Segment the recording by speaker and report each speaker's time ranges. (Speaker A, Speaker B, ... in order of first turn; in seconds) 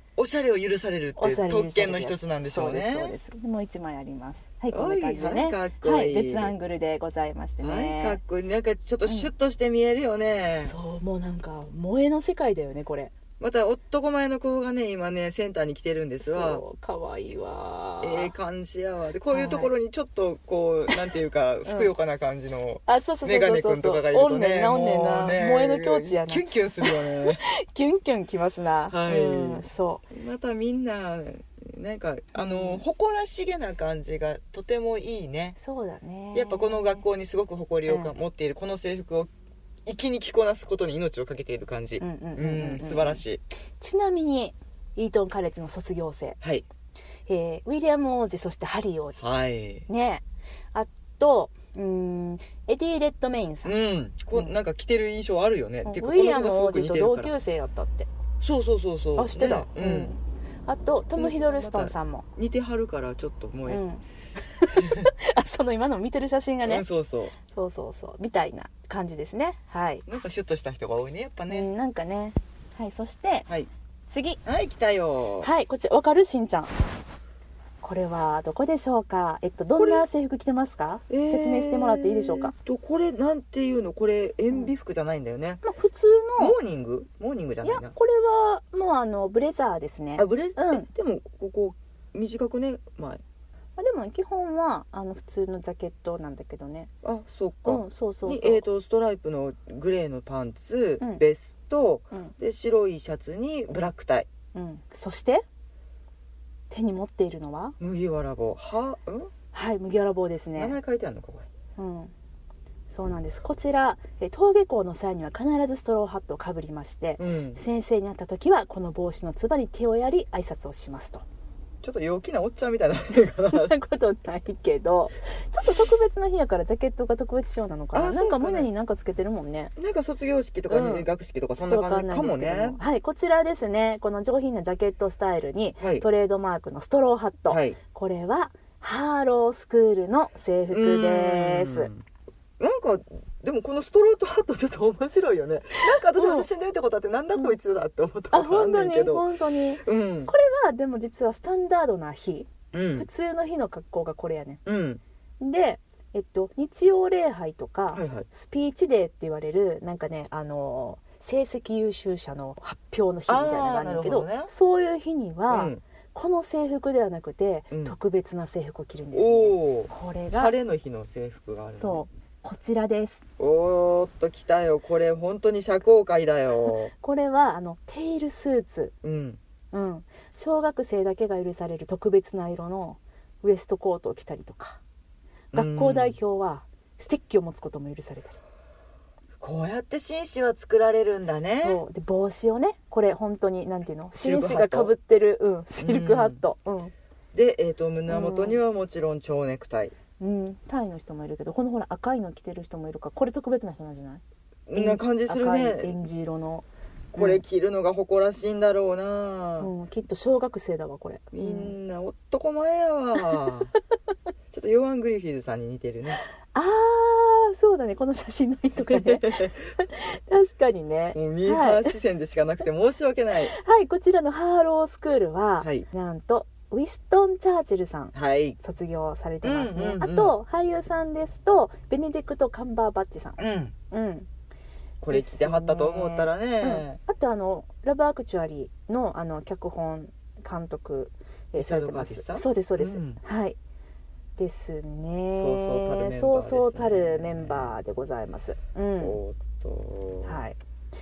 Speaker A: 0.2-3.1, 4.7-6.5, 7.6-10.7, 13.4-16.6, 18.0-27.4, 28.9-35.5, 36.3-39.3, 39.9-43.4, 46.4-46.6, 49.2-49.9, 53.6-57.3, 58.4-60.1, 61.1-63.8, 64.7-65.1, 66.6-67.3, 70.0-71.7, 74.4-75.5, 79.8-80.0, 81.1-85.6, 86.4-87.9, 90.2-93.2, 97.0-104.3, 107.8-109.3, 110.5-111.5, 117.2-117.6, 121.8-123.7, 127.9-128.7, 129.8-132.8, 135.8-136.0, 137.5-137.8, 140.7-142.0, 142.6-149.3, 149.8-150.3, 152.7-153.1, 154.6-155.0, 157.9-158.3, 163.3-164.5, 165.5-165.8, 169.1-172.0, 173.4-176.9, 179.0-179.4, 185.5-186.2, 189.4-191.8, 194.2-194.9, 195.8-196.4, 197.3-199.9, 204.7-205.9, 207.1-209.7, 211.3-213.7, 214.5-216.2, 218.8-219.6, 221.1-223.5, 225.6-225.8, 228.1-228.6, 229.4-230.3, 233.4-233.7, 235.0-237.0, 241.5-243.2, 245.3-247.8, 249.0-250.4
Speaker B: 1.2-8.2, 9.1-9.3, 10.6-13.1, 16.2-18.3, 19.3-19.7, 21.6-21.9, 22.9-30.0, 32.3-32.8, 35.6-37.0, 37.9-38.1, 42.0-43.2, 43.8-46.4, 47.3-49.2, 49.9-53.7, 55.8-58.1, 59.1-62.2, 63.7-64.0, 64.5-66.8, 67.5-70.0, 71.5-73.5, 74.1-74.4, 75.4-76.7, 77.8-82.5, 85.6-86.6, 87.6-90.9, 93.8-96.9, 97.6-98.7, 104.5-105.4, 106.7-107.8, 109.5-110.8, 111.8-112.1, 112.9-121.2, 123.5-129.7, 130.7-141.9, 145.8-146.5, 148.3-154.6, 155.4-170.5, 171.8-173.2, 176.9-178.9, 179.7-184.8, 185.5-188.4, 191.6-196.9, 198.1-198.6, 200.2-204.2, 204.7-207.4, 209.6-211.7, 213.2-213.5, 216.5-221.9, 223.4-233.4, 233.9-234.3, 235.1-243.6, 244.4-249.2, 250.2-250.6